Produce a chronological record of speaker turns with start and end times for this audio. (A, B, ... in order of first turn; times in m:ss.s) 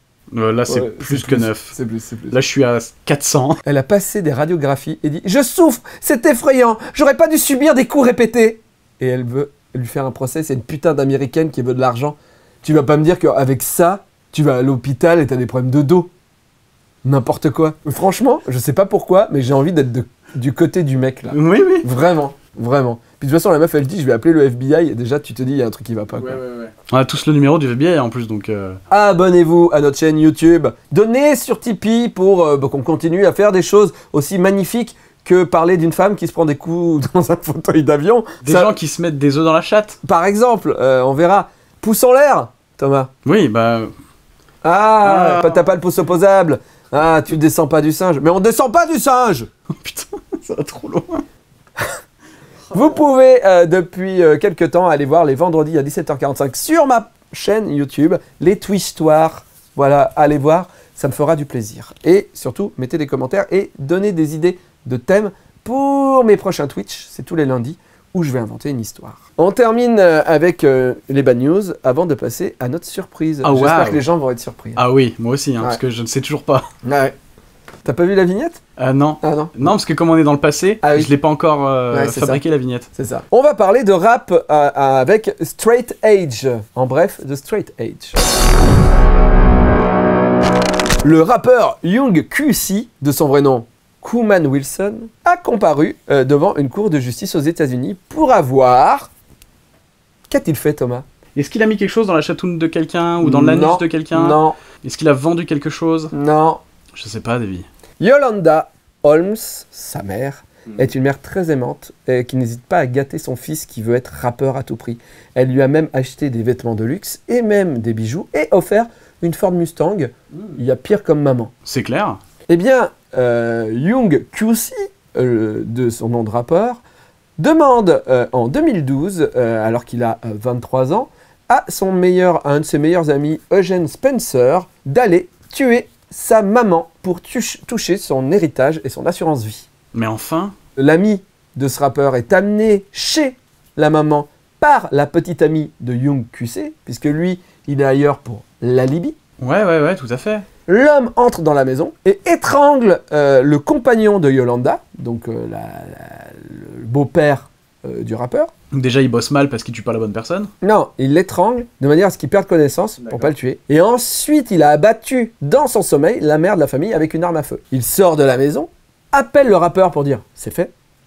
0:00.3-0:01.8 A
0:00.7-0:02.4 B
0:02.3-0:03.6 A
0:03.6-0:16.1 B
0:17.0-0:26.4 B
0:21.3-0:21.9 A
0:26.2-0:28.8 A
0:28.9-0:38.7 B
0:38.4-0:40.0 A
0:40.0-0:43.1 B
0:43.2-0:43.9 A
0:44.6-0:49.5 B
0:45.0-0:45.6 A
0:49.8-0:51.2 A
0:52.7-1:14.8 B
1:13.4-1:14.0 A
1:14.8-1:16.7 A
1:16.8-1:17.2 B
1:17.8-1:18.6 B
1:18.8-1:22.9 A
1:19.2-1:19.5 B
1:20.8-1:21.1 B
1:21.9-1:22.4 B
1:22.9-1:28.2 B
1:31.0-1:39.1 B
1:40.3-1:41.0 B
1:41.4-1:46.1 A
1:43.2-1:44.6 B
1:46.1-1:46.6 B
1:46.9-1:47.7 A
1:48.0-2:01.5 B
2:01.7-2:02.2 A
2:02.5-2:06.8 B
2:07.4-2:19.7 B
2:19.9-2:20.5 A
2:20.8-2:29.2 B
2:29.4-2:30.4 A
2:30.7-2:38.5 B
2:38.7-2:40.5 A
2:40.6-2:50.7 B